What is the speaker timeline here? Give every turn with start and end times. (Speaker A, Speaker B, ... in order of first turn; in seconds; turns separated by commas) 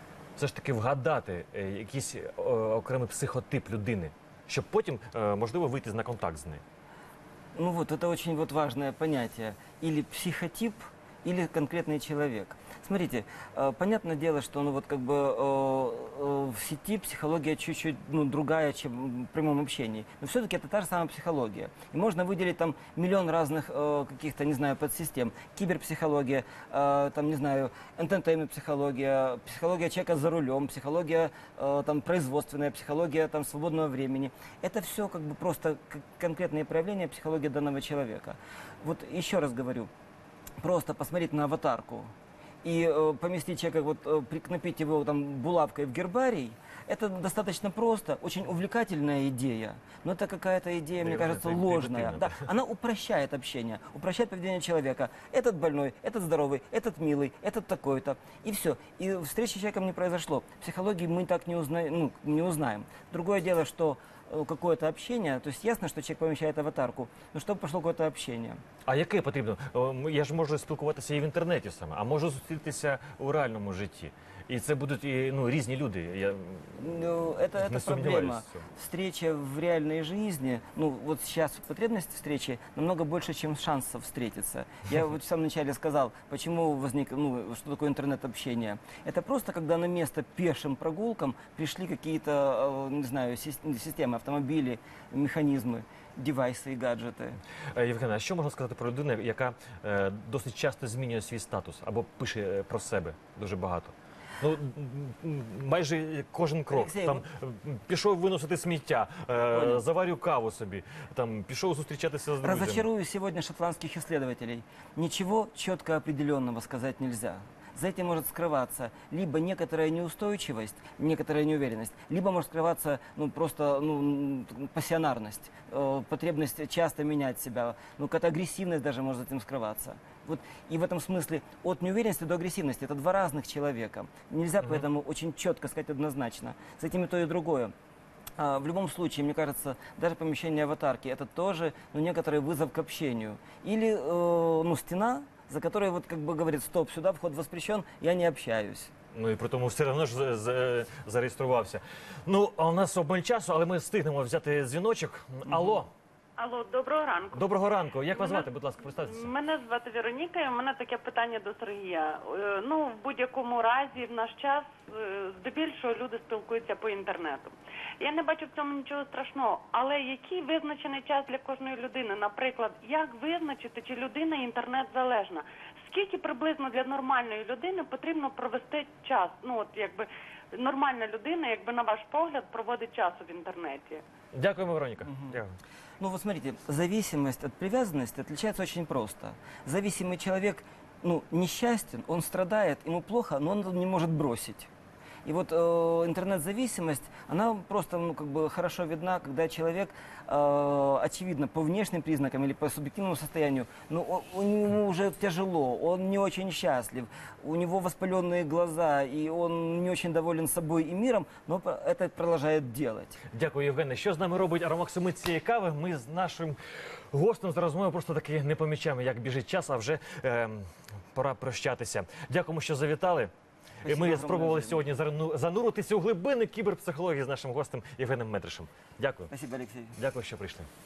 Speaker A: 0.3-6.6, Speaker B: 7.5-39.9, Speaker B: 40.6-42.1, Speaker B: 42.6-68.6, Speaker A: 51.0-52.4, Speaker A: 68.8-77.0, Speaker B: 76.8-97.4, Speaker A: 77.5-78.6, Speaker A: 97.7-112.8, Speaker B: 106.7-107.2, Speaker B: 109.4-109.8, Speaker B: 112.4-137.7, Speaker B: 138.4-148.9, Speaker A: 149.1-155.9, Speaker C: 156.4-157.4, Speaker A: 157.3-159.3, Speaker C: 158.1-158.5, Speaker C: 159.0-180.1, Speaker C: 180.6-184.0, Speaker A: 184.3-185.6, Speaker B: 185.0-185.4, Speaker B: 186.0-194.7, Speaker B: 195.2-213.2, Speaker A: 213.3-216.6, Speaker A: 217.1-223.3, Speaker B: 223.8-224.9, Speaker A: 223.8-229.3, Speaker B: 229.3-230.0, Speaker A: 229.9-230.7